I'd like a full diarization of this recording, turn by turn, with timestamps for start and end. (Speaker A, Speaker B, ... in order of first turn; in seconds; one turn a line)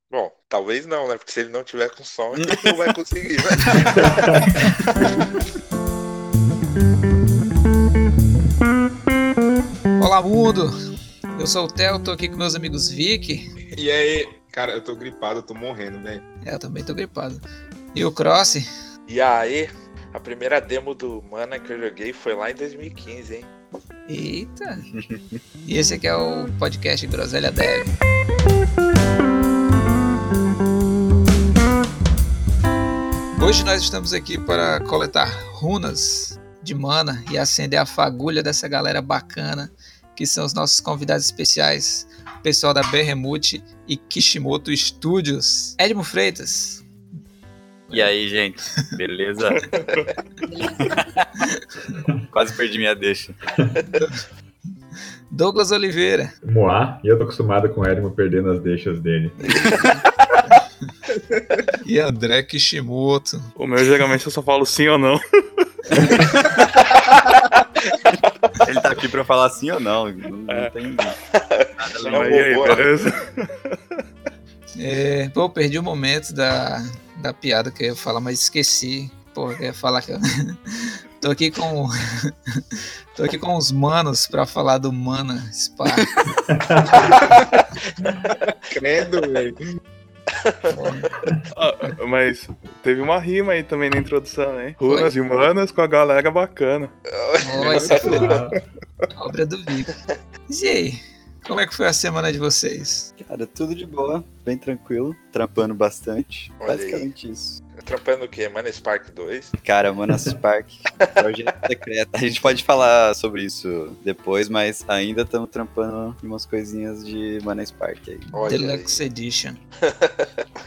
Speaker A: 0.1-4.3
Speaker B: 2.3-2.8
Speaker C: 3.8-4.1
Speaker D: 3.9-4.5
Speaker E: 10.0-10.7
Speaker E: 11.3-13.5
Speaker C: 13.8-16.2
Speaker E: 16.4-18.7
Speaker A: 19.1-23.5
Speaker E: 24.1-24.9
Speaker B: 24.8-25.4
Speaker E: 25.7-27.9
Speaker E: 33.4-46.9
Speaker B: 47.9-49.7
Speaker B: 50.8-51.3
Speaker B: 52.3-53.4
Speaker E: 55.3-56.4
Speaker D: 56.4-59.4
Speaker E: 59.4-59.9
Speaker B: 59.5-59.9
Speaker C: 61.1-61.4
Speaker E: 61.9-63.5
Speaker F: 63.6-65.7
Speaker B: 66.2-66.6
Speaker B: 68.6-71.2
Speaker F: 70.5-70.7
Speaker A: 71.3-72.9
Speaker B: 71.8-72.7
Speaker F: 72.0-73.8
Speaker E: 74.8-86.1
Speaker D: 86.5-87.0
Speaker C: 88.7-89.6
Speaker A: 90.3-90.8
Speaker E: 90.7-91.1
Speaker F: 91.5-96.9
Speaker E: 94.8-95.1
Speaker A: 97.1-98.4
Speaker E: 97.4-98.4
Speaker C: 97.5-98.2
Speaker D: 98.0-98.6
Speaker E: 99.1-99.9
Speaker E: 100.5-103.1
Speaker B: 103.2-107.6
Speaker A: 106.6-107.1
Speaker A: 107.8-109.6
Speaker B: 109.6-118.3
Speaker A: 118.3-119.0
Speaker E: 118.5-119.6
Speaker A: 119.8-120.5